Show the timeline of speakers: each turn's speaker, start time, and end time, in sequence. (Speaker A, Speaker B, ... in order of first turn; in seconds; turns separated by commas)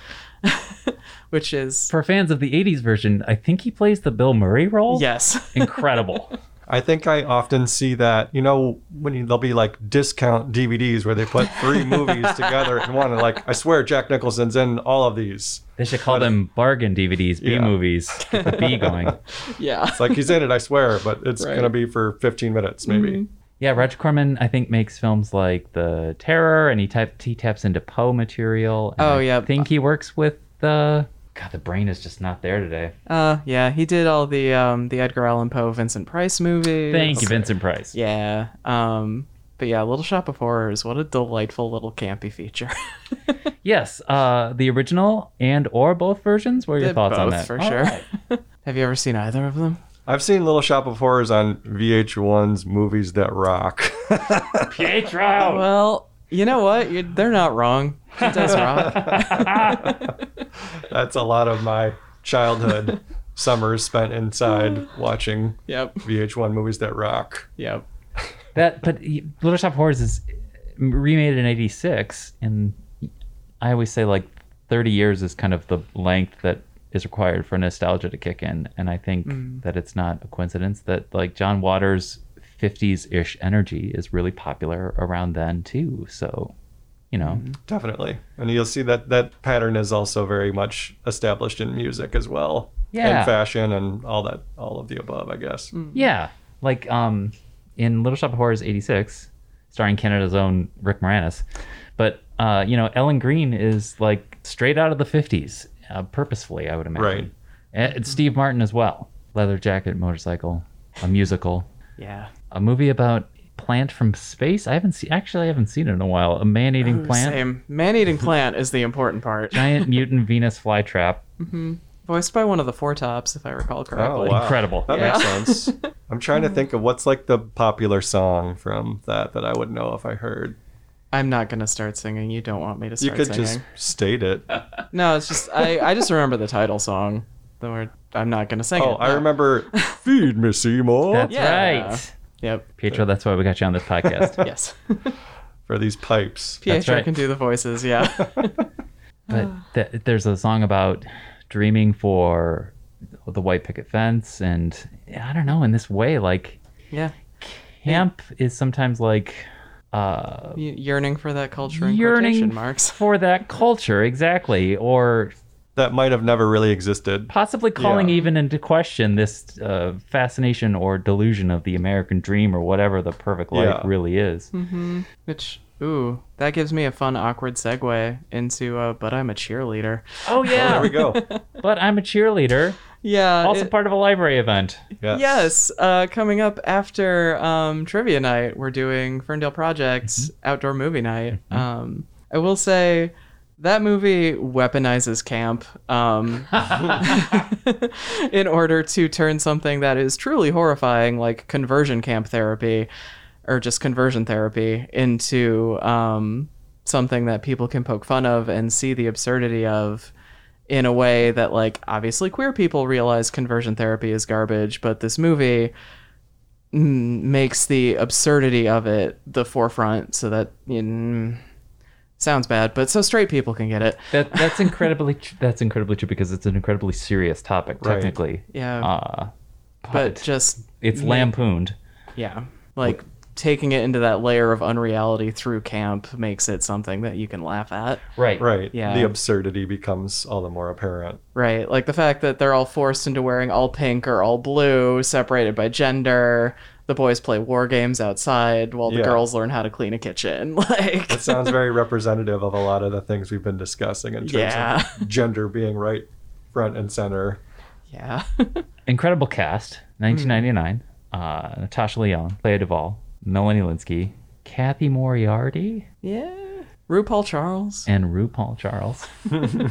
Speaker A: 0.4-1.9, Speaker B: 1.9-6.3, Speaker A: 4.9-6.1, Speaker C: 6.7-16.3, Speaker A: 11.4-13.1, Speaker B: 15.8-19.2, Speaker C: 17.4-17.8, Speaker A: 18.2-20.4, Speaker C: 18.4-19.1, Speaker C: 19.9-23.2, Speaker A: 21.4-21.7, Speaker A: 22.9-23.3, Speaker B: 23.6-32.9, Speaker A: 29.0-29.6, Speaker A: 33.1-43.4, Speaker B: 36.9-37.9, Speaker B: 43.6-48.0, Speaker A: 46.8-49.8, Speaker C: 50.0-54.9, Speaker B: 54.6-55.7, Speaker A: 55.4-60.2, Speaker B: 58.2-60.0, Speaker C: 60.7-67.5, Speaker A: 64.5-64.9, Speaker A: 65.7-66.0, Speaker A: 67.6-67.8, Speaker B: 68.5-70.2, Speaker B: 70.8-73.0, Speaker B: 73.6-86.5, Speaker A: 79.2-79.6, Speaker B: 87.1-87.4, Speaker A: 87.2-87.6, Speaker C: 87.6-95.7, Speaker B: 92.9-93.3, Speaker A: 95.7-96.1, Speaker B: 95.9-101.4, Speaker B: 102.0-111.7, Speaker C: 107.0-107.3, Speaker A: 112.0-112.3, Speaker B: 112.5-117.4, Speaker A: 116.8-119.9, Speaker B: 119.5-121.2, Speaker A: 121.4-125.8, Speaker C: 123.9-130.6, Speaker B: 124.2-125.2, Speaker A: 131.1-133.6, Speaker C: 133.0-134.4, Speaker A: 134.9-140.0, Speaker C: 138.8-141.4, Speaker B: 141.1-142.1, Speaker A: 141.3-142.7, Speaker B: 142.8-144.4, Speaker C: 144.0-144.5, Speaker A: 144.4-145.2, Speaker C: 145.7-146.6, Speaker A: 146.6-148.6, Speaker B: 146.7-147.1, Speaker C: 148.2-148.5, Speaker B: 149.3-152.7, Speaker B: 153.3-156.6, Speaker B: 157.4-160.6, Speaker A: 160.6-163.0, Speaker B: 161.7-165.3, Speaker C: 165.8-168.1, Speaker B: 167.3-174.5, Speaker C: 173.5-173.9, Speaker A: 174.5-181.4, Speaker B: 180.2-181.0, Speaker C: 180.5-181.2, Speaker B: 181.6-182.8, Speaker A: 183.0-183.7, Speaker B: 183.4-184.8, Speaker C: 185.0-185.5, Speaker A: 185.1-202.9, Speaker B: 196.5-197.1, Speaker A: 203.4-210.1, Speaker A: 210.7-215.7, Speaker A: 216.7-221.4, Speaker A: 222.2-224.9, Speaker B: 224.1-229.3, Speaker C: 227.8-228.1, Speaker A: 228.5-228.9, Speaker B: 229.8-231.7, Speaker A: 229.9-231.3, Speaker A: 232.2-238.0, Speaker B: 238.2-238.5, Speaker C: 238.4-241.2, Speaker A: 238.7-239.1, Speaker A: 241.3-251.6, Speaker C: 248.8-249.2, Speaker C: 251.1-257.4, Speaker A: 254.2-255.1, Speaker A: 257.9-258.6, Speaker B: 258.9-265.9, Speaker A: 260.1-260.4, Speaker A: 266.0-267.9, Speaker B: 267.9-269.1